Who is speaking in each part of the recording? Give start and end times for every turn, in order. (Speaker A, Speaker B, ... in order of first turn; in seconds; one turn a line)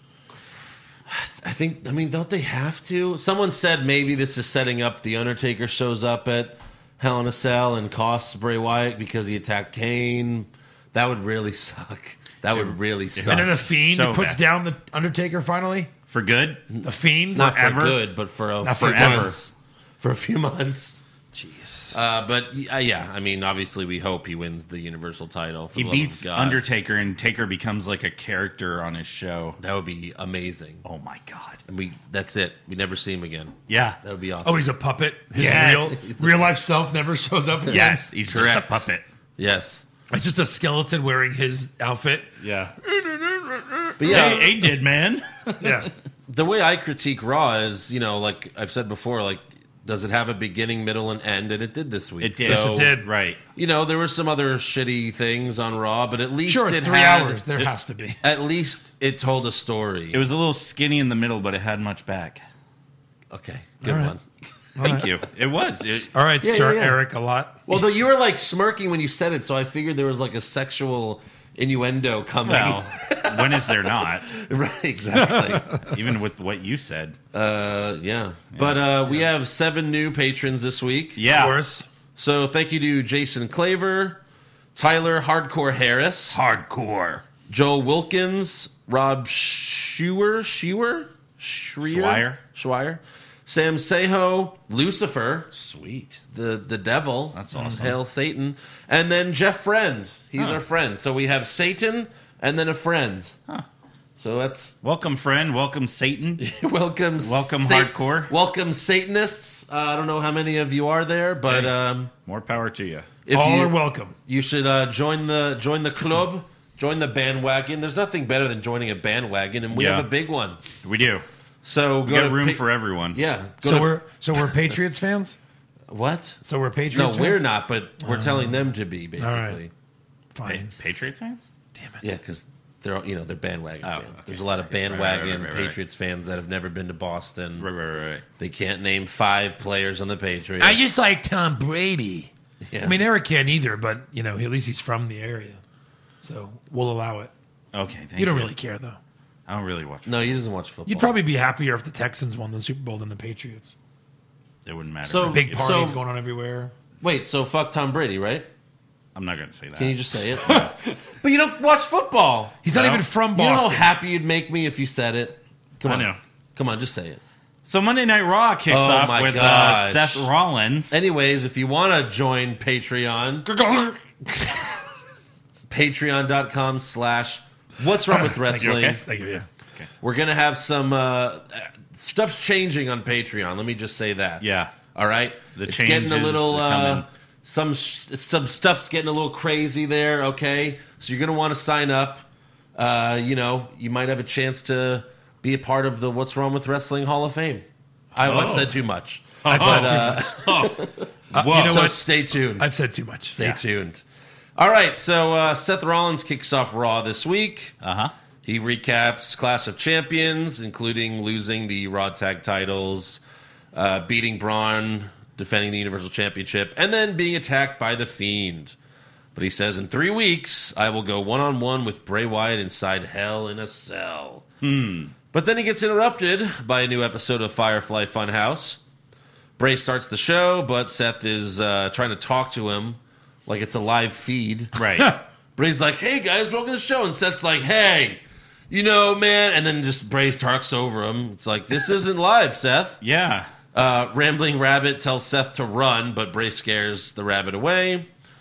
Speaker A: 1.1-13.6
Speaker B: 12.5-14.4
Speaker C: 13.3-15.9
Speaker B: 16.1-16.6
Speaker A: 16.7-21.0
Speaker C: 16.8-18.0
Speaker C: 18.6-19.4
Speaker B: 18.8-19.4
Speaker C: 21.3-22.0
Speaker A: 21.9-26.6
Speaker B: 25.8-29.6
Speaker A: 29.6-30.9
Speaker B: 30.9-31.6
Speaker A: 31.7-34.7
Speaker B: 33.7-34.0
Speaker C: 34.4-38.1
Speaker B: 35.4-36.0
Speaker A: 35.4-36.5
Speaker A: 37.7-38.9
Speaker B: 37.7-39.0
Speaker A: 39.4-39.9
Speaker C: 40.1-42.3
Speaker B: 42.4-42.8
Speaker C: 42.9-44.5
Speaker A: 44.0-44.5
Speaker B: 44.0-45.9
Speaker C: 45.6-45.9
Speaker A: 46.3-52.9
Speaker B: 52.2-53.4
Speaker C: 52.4-53.1
Speaker A: 53.6-57.7
Speaker C: 56.5-58.2
Speaker A: 58.2-60.2
Speaker B: 60.1-62.4
Speaker A: 63.3-64.2
Speaker C: 63.8-64.1
Speaker C: 64.8-65.1
Speaker B: 64.8-66.1
Speaker C: 66.1-67.6
Speaker A: 66.4-67.0
Speaker A: 67.7-75.8
Speaker B: 72.5-74.4
Speaker C: 75.2-75.9
Speaker B: 75.8-77.2
Speaker A: 77.3-81.2
Speaker B: 78.5-78.8
Speaker B: 81.2-81.6
Speaker C: 81.3-81.9
Speaker A: 82.2-84.2
Speaker A: 84.8-86.4
Speaker B: 86.3-87.2
Speaker A: 87.5-95.5
Speaker B: 91.8-92.4
Speaker B: 95.5-96.2
Speaker A: 96.3-103.4
Speaker B: 97.3-98.0
Speaker A: 104.2-104.8
Speaker B: 104.8-106.4
Speaker A: 106.4-112.1
Speaker B: 107.2-108.3
Speaker B: 111.5-113.1
Speaker A: 113.3-113.8
Speaker C: 113.3-114.2
Speaker A: 114.3-120.6
Speaker B: 119.7-120.1
Speaker B: 120.8-121.2
Speaker A: 121.6-123.9
Speaker B: 122.1-123.2
Speaker C: 123.6-125.4
Speaker A: 125.9-129.7
Speaker C: 126.5-127.5
Speaker C: 128.0-128.5
Speaker C: 129.2-129.6
Speaker C: 130.3-130.7
Speaker B: 130.4-131.5
Speaker C: 131.8-132.1
Speaker A: 132.0-137.7
Speaker B: 133.8-135.8
Speaker B: 137.6-138.2
Speaker A: 138.4-140.8
Speaker C: 140.6-145.6
Speaker A: 142.6-143.0
Speaker C: 146.2-147.3
Speaker B: 147.7-148.5
Speaker C: 148.2-149.0
Speaker B: 149.5-150.3
Speaker A: 150.1-151.2
Speaker C: 150.9-153.7
Speaker B: 154.7-155.9
Speaker A: 155.0-156.0
Speaker C: 155.3-156.7
Speaker A: 157.0-158.5
Speaker B: 159.2-160.0
Speaker A: 159.8-162.7
Speaker C: 162.6-163.9
Speaker B: 162.7-163.0
Speaker A: 163.3-167.2
Speaker B: 165.8-166.2
Speaker B: 167.7-171.0
Speaker A: 168.7-170.3
Speaker A: 170.9-173.5
Speaker C: 173.5-174.8
Speaker A: 175.7-179.0
Speaker C: 178.1-179.5
Speaker B: 178.6-179.0
Speaker A: 180.0-202.7
Speaker B: 184.4-184.7
Speaker B: 185.6-187.1
Speaker B: 198.2-198.7
Speaker C: 199.4-200.3
Speaker B: 199.4-200.2
Speaker C: 201.3-203.5
Speaker A: 203.4-204.0
Speaker A: 204.6-207.8
Speaker B: 207.8-208.1
Speaker A: 208.4-213.2
Speaker A: 213.7-218.8
Speaker A: 219.3-224.5
Speaker B: 224.6-225.1
Speaker A: 225.3-228.8
Speaker A: 229.6-234.8
Speaker B: 234.8-235.1
Speaker A: 235.6-243.0
Speaker B: 243.0-243.5
Speaker A: 243.7-248.1